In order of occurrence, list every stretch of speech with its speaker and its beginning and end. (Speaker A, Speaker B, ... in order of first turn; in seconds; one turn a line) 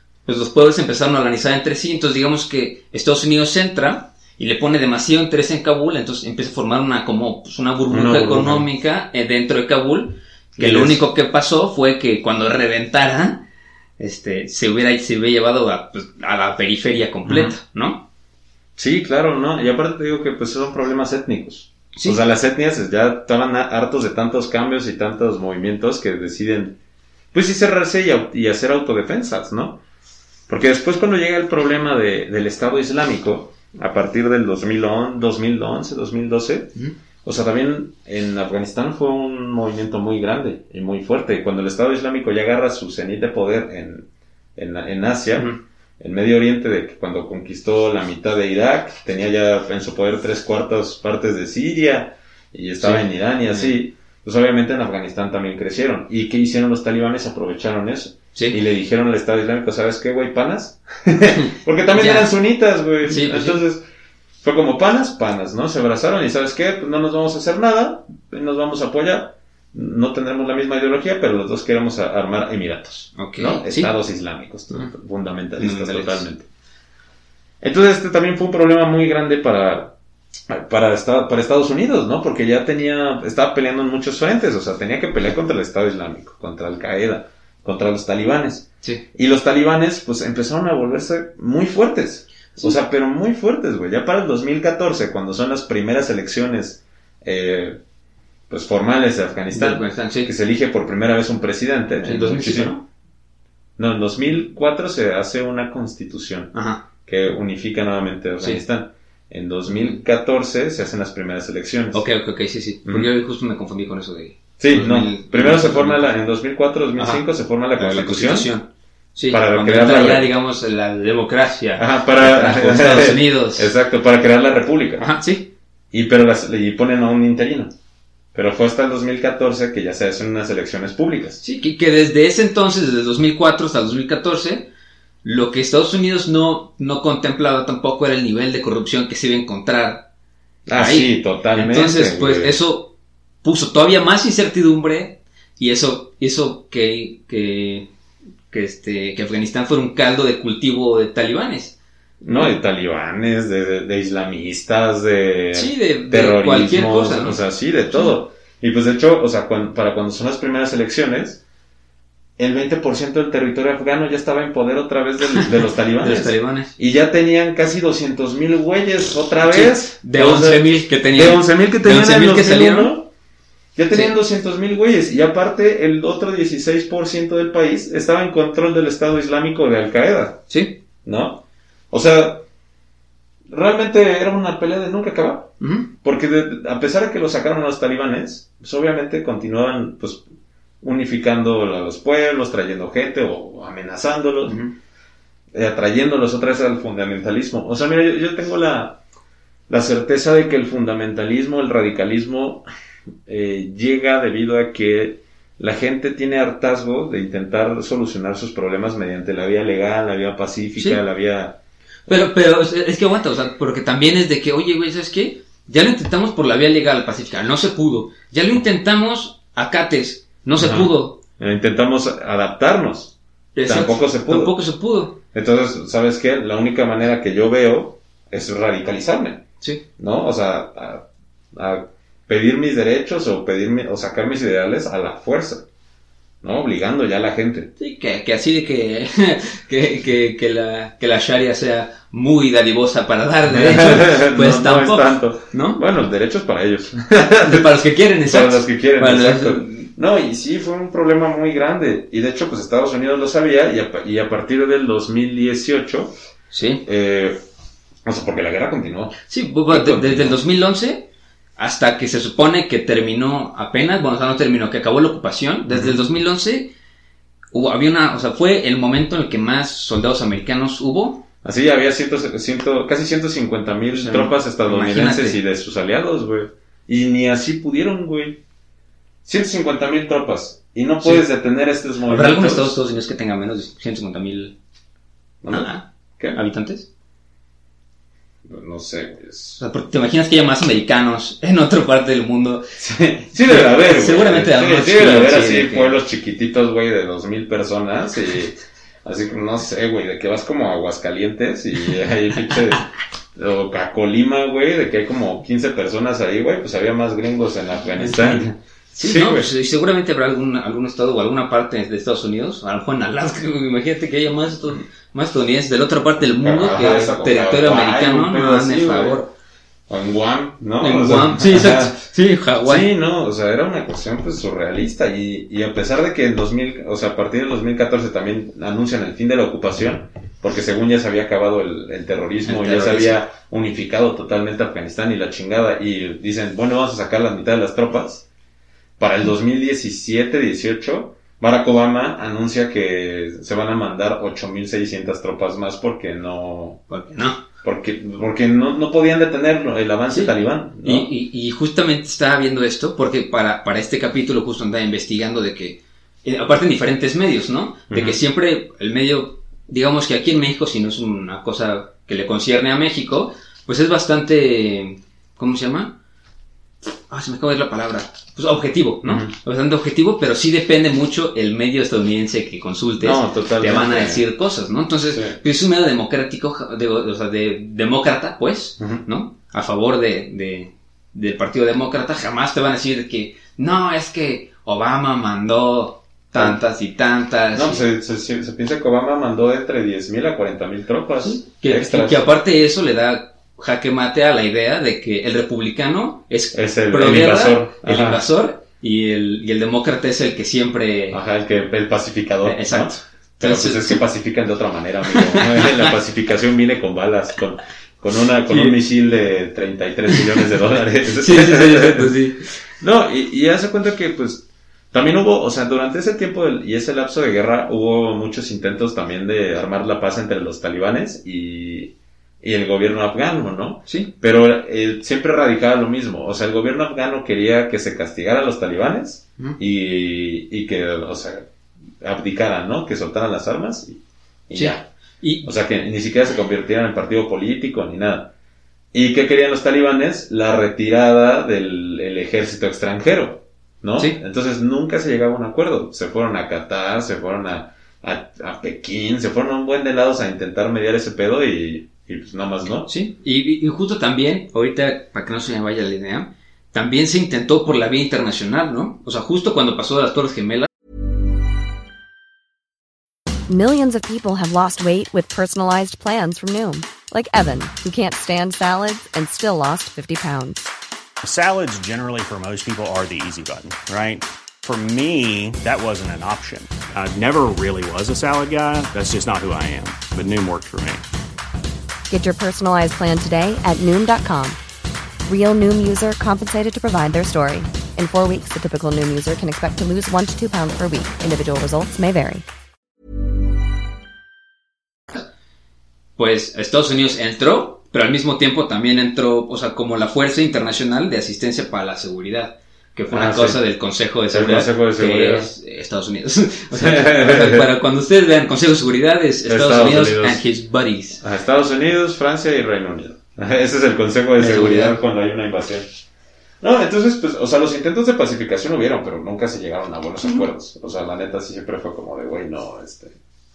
Speaker A: 0.2-13.4
Speaker B: 7.9-8.7
Speaker B: 10.6-11.0
Speaker A: 14.0-18.0
Speaker B: 17.2-17.5
Speaker B: 18.8-26.8
Speaker A: 21.9-22.2
Speaker B: 27.3-29.8
Speaker B: 30.5-36.7
Speaker B: 37.2-63.8
Speaker A: 52.8-53.7
Speaker A: 61.3-62.3
Speaker A: 63.0-63.6
Speaker B: 64.4-76.5
Speaker A: 73.2-73.9
Speaker A: 75.6-76.2
Speaker B: 77.6-79.9
Speaker B: 80.5-97.8
Speaker B: 98.5-102.8
Speaker A: 99.5-100.3
Speaker A: 102.0-102.8
Speaker B: 103.8-112.0
Speaker A: 106.5-106.8
Speaker A: 109.7-110.0
Speaker A: 111.9-116.1
Speaker B: 114.6-118.5
Speaker A: 117.0-117.2
Speaker A: 117.8-123.7
Speaker B: 119.3-120.3
Speaker B: 121.8-125.1
Speaker A: 125.0-125.5
Speaker B: 125.9-127.7
Speaker B: 128.3-131.4
Speaker A: 131.4-134.7
Speaker A: 135.2-140.1
Speaker B: 140.7-142.6
Speaker A: 140.8-142.9
Speaker A: 143.4-147.9
Speaker A: 148.5-151.8
Speaker B: 152.2-161.4
Speaker A: 155.5-157.4
Speaker B: 162.4-173.1
Speaker A: 166.0-166.7
Speaker A: 169.4-172.9
Speaker B: 173.8-180.4
Speaker A: 180.5-180.8
Speaker B: 181.0-181.4
Speaker B: 181.9-182.4
Speaker B: 183.5-190.2
Speaker A: 185.6-185.9
Speaker B: 190.8-194.6
Speaker A: 194.4-194.7
Speaker B: 195.5-199.0
Speaker B: 199.7-202.6
Speaker B: 203.2-212.2
Speaker A: 212.1-221.2
Speaker B: 220.6-223.1
Speaker A: 223.5-225.2
Speaker B: 223.6-224.6
Speaker B: 225.3-229.4
Speaker B: 230.0-235.6
Speaker B: 236.4-237.7
Speaker A: 237.8-245.8
Speaker B: 243.5-247.7
Speaker A: 247.4-249.9
Speaker B: 248.3-256.1
Speaker A: 256.5-256.8
Speaker B: 256.8-257.4
Speaker B: 258.0-259.1
Speaker A: 259.3-266.7
Speaker B: 259.7-260.4
Speaker B: 265.7-266.0
Speaker A: 267.5-271.2
Speaker B: 271.4-278.4
Speaker A: 273.9-275.4
Speaker B: 279.2-282.8
Speaker A: 282.1-284.5
Speaker B: 285.4-286.4
Speaker A: 285.5-286.9
Speaker B: 288.4-289.6
Speaker A: 289.6-292.7
Speaker B: 292.8-309.5
Speaker A: 293.5-296.0
Speaker A: 308.0-319.3
Speaker B: 316.4-319.2
Speaker B: 319.9-321.9
Speaker A: 320.8-322.9
Speaker B: 322.6-338.2
Speaker A: 332.4-333.2
Speaker B: 339.0-346.8
Speaker A: 346.9-347.4
Speaker B: 347.6-351.1
Speaker A: 350.1-365.9
Speaker B: 357.9-358.2
Speaker A: 367.1-387.8
Speaker B: 369.0-369.3
Speaker B: 373.0-374.2
Speaker B: 375.1-375.4
Speaker B: 378.8-379.0
Speaker B: 387.5-392.3
Speaker A: 391.2-401.2
Speaker B: 396.5-398.2
Speaker B: 401.1-412.1
Speaker A: 402.4-404.0
Speaker A: 405.1-405.9
Speaker A: 408.5-408.8
Speaker A: 411.2-412.5
Speaker B: 412.8-431.5
Speaker B: 432.0-434.9
Speaker A: 434.5-435.5
Speaker B: 435.4-438.3
Speaker B: 438.9-452.9
Speaker A: 452.9-460.7
Speaker C: 463.5-470.7
Speaker D: 471.2-481.0
Speaker C: 482.1-484.6
Speaker C: 485.3-492.4
Speaker A: 496.2-511.2
Speaker B: 503.1-503.6
Speaker B: 504.3-505.5
Speaker B: 506.7-507.7
Speaker B: 509.4-510.4
Speaker B: 511.2-515.9
Speaker A: 514.4-515.0
Speaker B: 516.6-523.1
Speaker A: 520.2-520.5